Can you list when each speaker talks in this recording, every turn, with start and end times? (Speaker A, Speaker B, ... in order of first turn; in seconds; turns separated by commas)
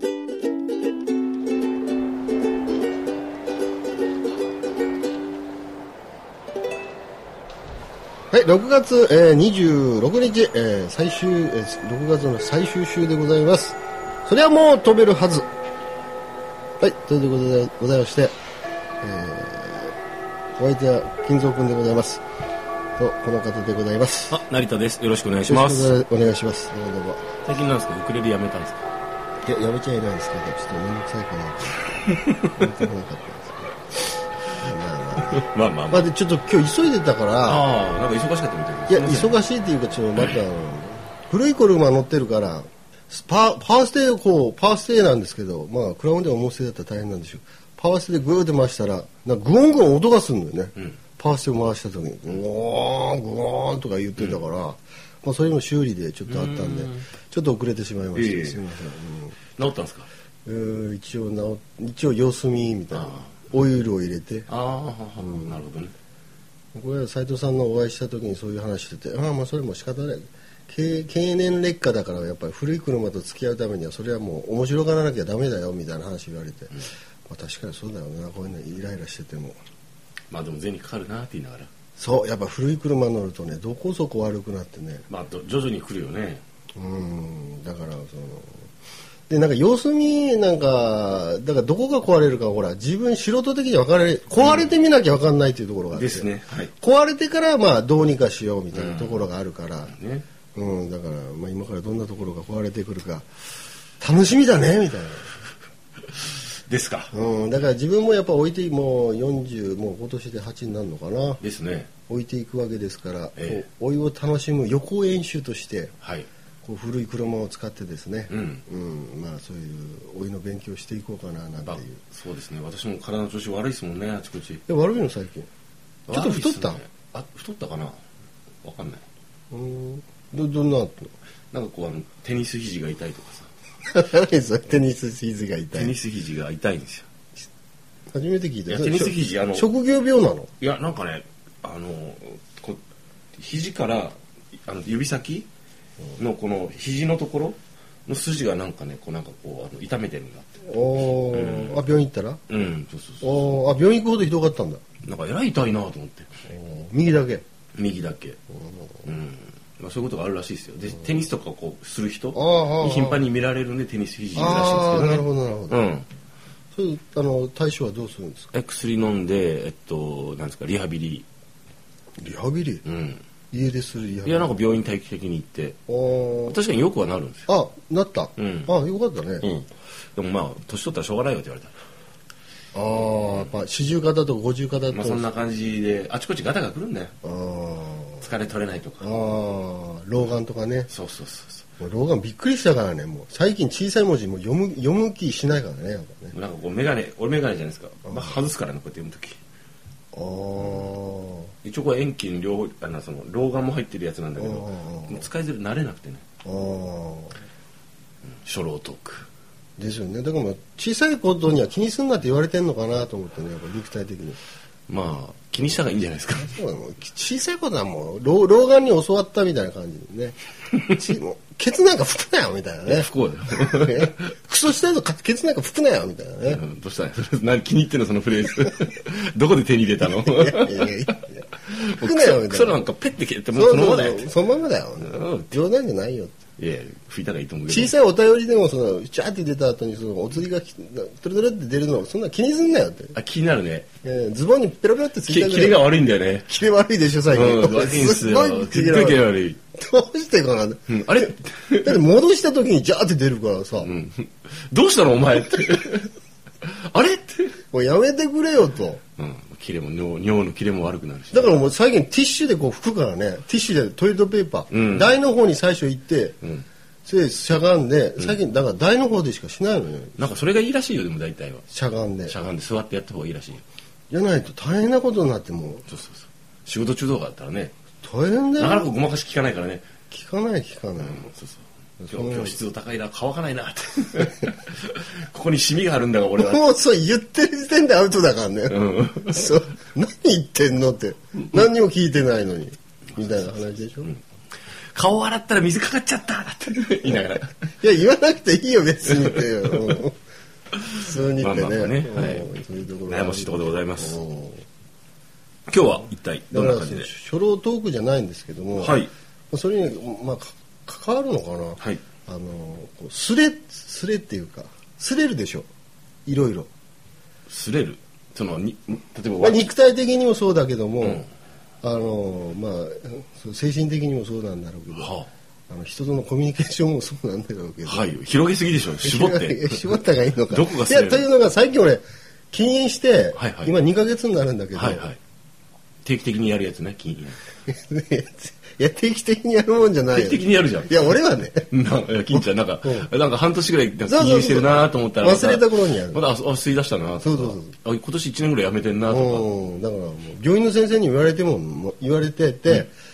Speaker A: 8.3-15.5, Speaker A: 16.8-18.4, Speaker A: 19.0-19.9, Speaker A: 20.6-22.2, Speaker A: 23.0-24.4, Speaker B: 24.3-26.0, Speaker A: 25.5-27.3, Speaker B: 27.4-28.8, Speaker A: 29.4-34.0, Speaker A: 34.5-37.7, Speaker B: 35.3-36.1, Speaker B: 37.4-39.4, Speaker A: 38.9-59.4, Speaker B: 56.3-57.1, Speaker B: 58.1-58.6, Speaker B: 59.5-60.1, Speaker A: 60.4-64.5, Speaker B: 62.9-63.4, Speaker B: 64.5-65.9, Speaker A: 65.2-65.6, Speaker A: 66.7-79.6, Speaker B: 80.3-81.7, Speaker A: 82.0-85.1, Speaker B: 85.1-86.4, Speaker A: 86.8-88.7, Speaker A: 89.3-99.9, Speaker B: 94.4-94.7, Speaker B: 95.9-96.7, Speaker B: 98.7-99.3, Speaker B: 99.9-100.2, Speaker A: 100.5-103.2, Speaker A: 104.0-105.3, Speaker B: 106.3-107.1, Speaker A: 107.1-111.4, Speaker B: 111.4-111.9, Speaker A: 112.1-115.9, Speaker B: 116.0-116.3, Speaker A: 116.6-122.0, Speaker B: 118.3-118.6, Speaker B: 121.6-124.6, Speaker A: 124.7-125.5, Speaker A: 126.1-126.8, Speaker B: 126.1-128.0, Speaker B: 128.6-129.0, Speaker A: 129.5-131.1, Speaker B: 131.5-133.5, Speaker A: 133.9-135.9, Speaker B: 135.7-137.1, Speaker A: 138.1-140.5, Speaker B: 138.7-139.7, Speaker B: 140.6-142.8, Speaker B: 143.3-145.5, Speaker B: 146.2-151.9, Speaker A: 150.6-152.4, Speaker B: 152.5-153.5, Speaker A: 153.2-154.8, Speaker B: 155.0-156.3, Speaker A: 156.5-157.4, Speaker B: 157.8-158.4, Speaker A: 158.5-159.1, Speaker B: 159.0-166.1, Speaker A: 162.3-163.2, Speaker A: 164.3-165.8, Speaker A: 166.7-168.5, Speaker B: 168.5-171.2, Speaker A: 172.2-172.8, Speaker B: 172.8-173.2, Speaker A: 173.5-174.6, Speaker B: 174.2-175.8, Speaker A: 175.9-176.6, Speaker B: 176.5-177.5, Speaker A: 177.5-179.5, Speaker B: 178.4-178.7, Speaker B: 179.4-181.7, Speaker A: 182.7-185.3, Speaker B: 184.9-187.1, Speaker A: 187.2-188.2, Speaker B: 188.2-189.3, Speaker A: 189.0-190.9, Speaker B: 190.9-191.6, Speaker A: 191.8-196.3, Speaker B: 196.3-199.4, Speaker A: 198.1-198.4, Speaker A: 200.1-201.5, Speaker B: 201.6-206.2, Speaker A: 204.4-205.2, Speaker A: 206.4-207.3, Speaker B: 208.4-209.3, Speaker A: 209.8-214.4, Speaker B: 214.9-216.5, Speaker A: 216.3-226.6, Speaker B: 222.8-224.2, Speaker B: 226.4-231.1, Speaker A: 230.0-232.8, Speaker B: 231.6-234.3, Speaker A: 233.5-236.4, Speaker B: 235.0-235.6, Speaker B: 236.6-237.9, Speaker A: 237.7-243.2, Speaker B: 243.1-243.9, Speaker A: 244.0-245.9, Speaker B: 245.2-246.6, Speaker A: 246.4-253.9, Speaker B: 247.3-249.6, Speaker B: 250.9-252.0, Speaker B: 253.8-256.1, Speaker B: 256.6-257.6, Speaker A: 257.7-259.0, Speaker B: 259.2-261.6, Speaker A: 261.3-266.4, Speaker B: 264.7-265.1, Speaker A: 267.0-270.3, Speaker B: 270.2-271.6, Speaker A: 271.7-272.4, Speaker B: 272.2-273.6, Speaker A: 274.1-275.9, Speaker B: 275.9-277.7, Speaker A: 278.0-278.9, Speaker B: 278.6-279.9, Speaker A: 280.1-281.3, Speaker B: 281.0-286.7, Speaker A: 282.0-282.6, Speaker A: 286.4-294.1, Speaker B: 288.7-289.6, Speaker B: 294.9-297.5, Speaker A: 297.8-300.2, Speaker B: 299.1-300.0, Speaker B: 300.7-304.2, Speaker A: 300.9-304.6, Speaker B: 305.7-307.1, Speaker A: 306.5-315.7, Speaker B: 308.8-309.1, Speaker A: 316.2-316.7, Speaker B: 317.5-319.7, Speaker A: 319.4-321.3, Speaker B: 321.0-321.2, Speaker A: 321.8-325.1, Speaker B: 324.9-325.3, Speaker A: 325.7-328.1, Speaker B: 327.8-329.9, Speaker A: 329.0-335.1, Speaker B: 330.5-331.2, Speaker B: 333.3-333.7, Speaker B: 334.7-335.2, Speaker B: 336.0-337.4, Speaker A: 337.6-341.7, Speaker B: 340.1-349.5, Speaker A: 342.3-343.1, Speaker A: 344.1-346.2, Speaker A: 347.2-347.7, Speaker A: 349.1-352.9